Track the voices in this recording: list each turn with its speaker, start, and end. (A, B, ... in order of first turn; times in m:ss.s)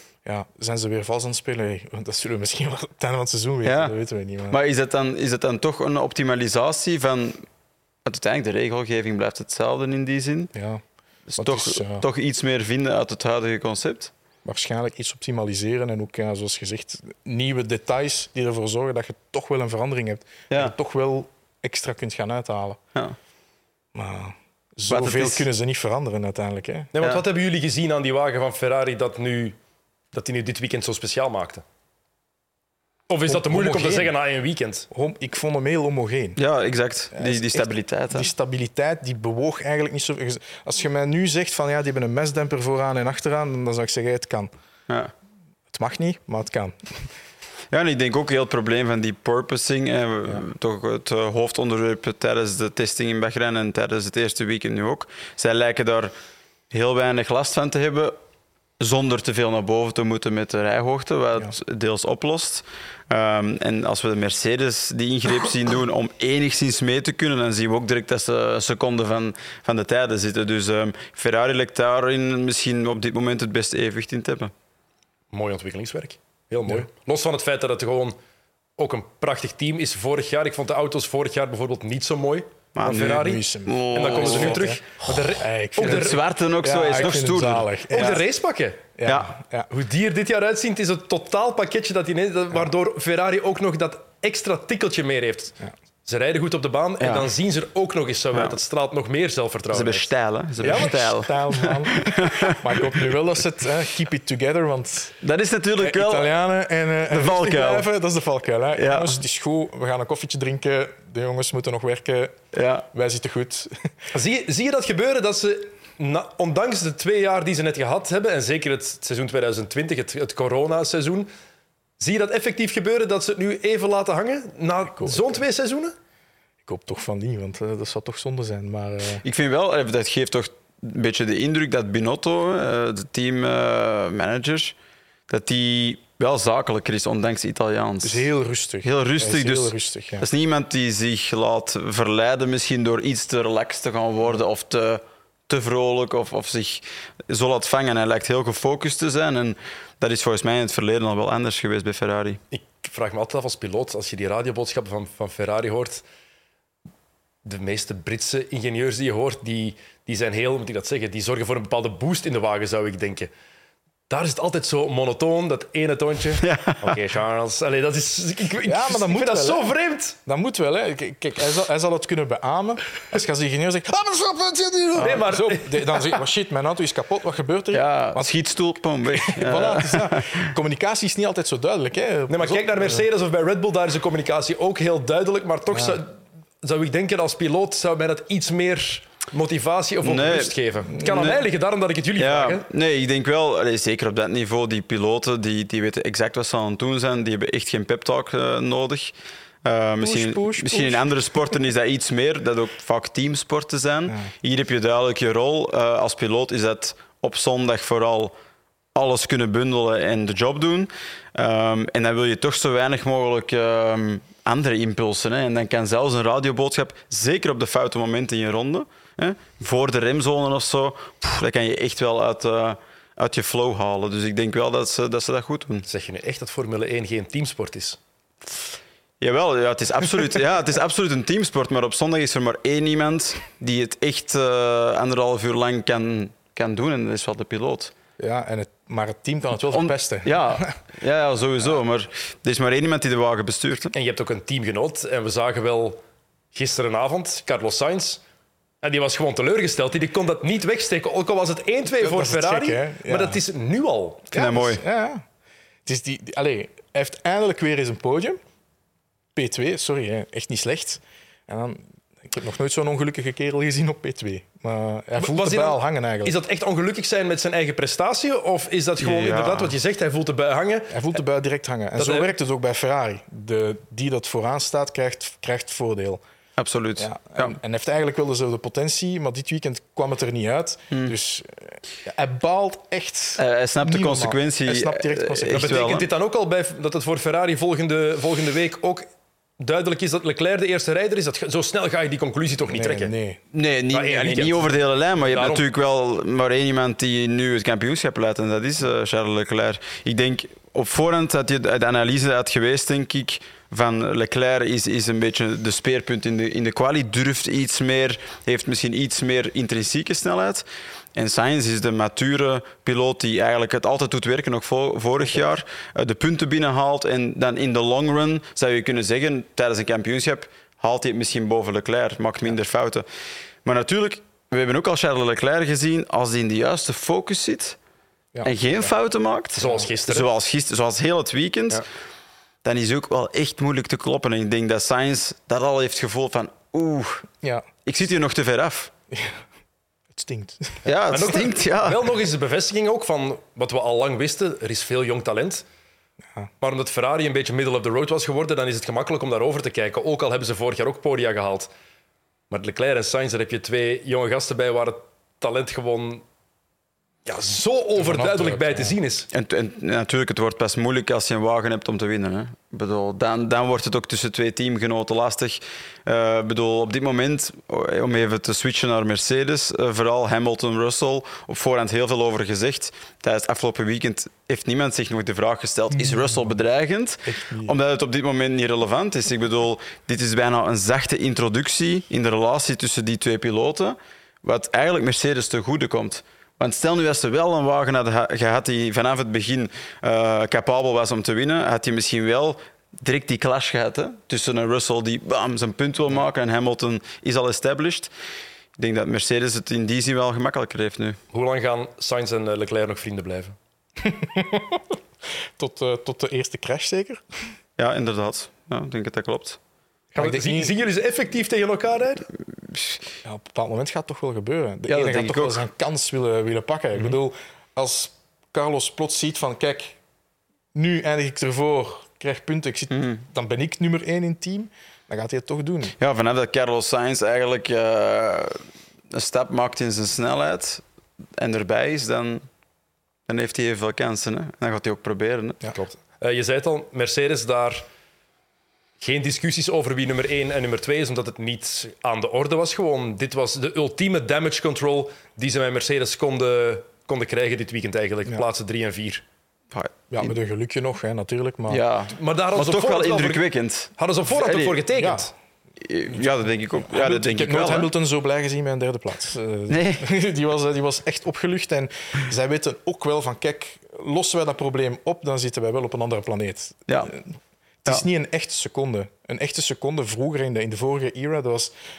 0:00.2-0:04.6 A
0:03.6-0:03.9 B
0:04.5-0:07.4 B
0:08.0-0:10.5 B
0:10.5-0:10.8 A
0:11.3-0:14.1 B
0:11.4-0:12.0 A
0:14.4-0:22.8 A
0:23.9-0:26.9 A
0:24.9-0:25.4 B
0:26.9-0:29.6 C
0:30.1-0:31.6 C
0:33.1-0:34.9 C
0:33.3-0:34.1 A
0:34.9-0:36.4 A
0:36.4-0:38.3 B
0:37.1-0:44.5 A
0:45.7-0:47.1 A
0:47.7-0:56.1 B
0:56.7-0:58.2 B
0:58.8-1:14.5 B
1:15.3-1:18.1 C
1:18.8-1:26.2 C
1:22.8-1:24.8 B
1:22.9-1:28.2 A
1:25.8-1:27.7 B
1:27.9-1:28.8 C
1:29.0-1:29.7 A
1:29.7-1:40.1 C
1:37.0-1:37.3 B
1:39.7-1:42.8 B
1:40.6-1:41.1 C
1:40.6-1:45.2 A
1:45.2-1:46.3 B
1:45.8-1:53.9 A
1:47.1-1:47.9 B
1:48.8-1:49.2 B
1:52.5-1:52.8 B
1:54.1-2:01.3 C
2:02.0-2:05.9 C
2:05.0-2:05.2 A
2:06.6-2:09.2 A
2:09.2-2:14.8 B
2:15.3-2:18.2 B
2:18.0-2:20.3 A
2:18.8-2:32.4 B
2:32.5-2:36.0 C
2:37.4-2:43.3 C
2:44.1-2:50.2 C
2:46.4-2:47.0 B
2:48.6-2:49.7 A
2:50.2-2:58.3 A
2:55.0-2:56.2 C
2:57.7-3:00.4 B
2:59.1-3:03.0 A
3:02.3-3:12.6 C
3:05.7-3:06.0 A
3:10.0-3:11.4 B
3:12.2-3:28.3 B
3:20.0-3:21.0 A
3:28.9-3:45.8 B
3:45.9-3:48.0 C
3:49.2-3:57.9 B
3:58.2-4:00.8 A
3:59.7-4:03.9 B
4:03.9-4:06.0 C
4:06.5-4:08.2 C
4:08.8-4:14.2 C
4:12.0-4:13.4 A
4:14.3-4:14.8 B
4:14.3-4:15.2 A
4:15.8-4:18.4 A
4:19.4-4:26.3 A
4:25.2-4:30.9 C
4:29.0-4:29.7 B
4:30.9-4:36.2 A
4:32.0-4:32.3 C
4:36.6-4:37.5 B
4:37.0-4:45.8 A
4:43.4-4:46.1 B
4:45.5-4:49.1 C
4:49.6-4:53.1 C
4:52.7-4:53.4 A
4:53.5-5:10.6 B
4:53.9-4:55.6 C
5:11.1-5:23.0 B
5:23.6-5:27.8 B
5:28.4-5:31.8 B
5:29.6-5:30.3 C
5:32.6-5:37.3 B
5:37.8-5:38.9 B
5:39.1-5:39.4 A
5:40.1-5:40.8 A
5:40.8-5:42.0 B
5:41.1-5:45.6 C
5:46.6-5:51.7 C
5:52.5-5:56.2 C
5:57.2-5:59.3 C
5:58.0-5:58.9 A
5:59.3-6:38.1 B
6:16.0-6:16.3 A
6:17.2-6:17.8 A
6:38.8-6:41.2 B
6:41.3-6:43.6 C
6:44.0-6:44.8 A
6:45.6-6:47.2 A
6:47.8-6:49.6 B
6:50.2-6:50.7 A
6:50.2-6:52.3 C
6:52.6-6:53.0 B
6:53.2-7:00.0 A
6:54.9-6:55.6 B
7:00.7-7:06.0 A
7:02.9-7:03.2 B
7:06.0-7:10.8 B
7:11.4-7:12.5 B
7:13.3-7:15.6 B
7:15.8-7:17.8 C
7:19.0-7:29.2 C
7:29.7-7:30.3 B
7:30.1-7:31.8 A
7:31.7-7:34.8 B
7:32.2-7:33.4 C
7:34.0-7:35.3 C
7:35.0-7:35.3 A
7:35.8-7:37.9 B
7:36.8-7:51.7 A
7:39.7-7:40.0 B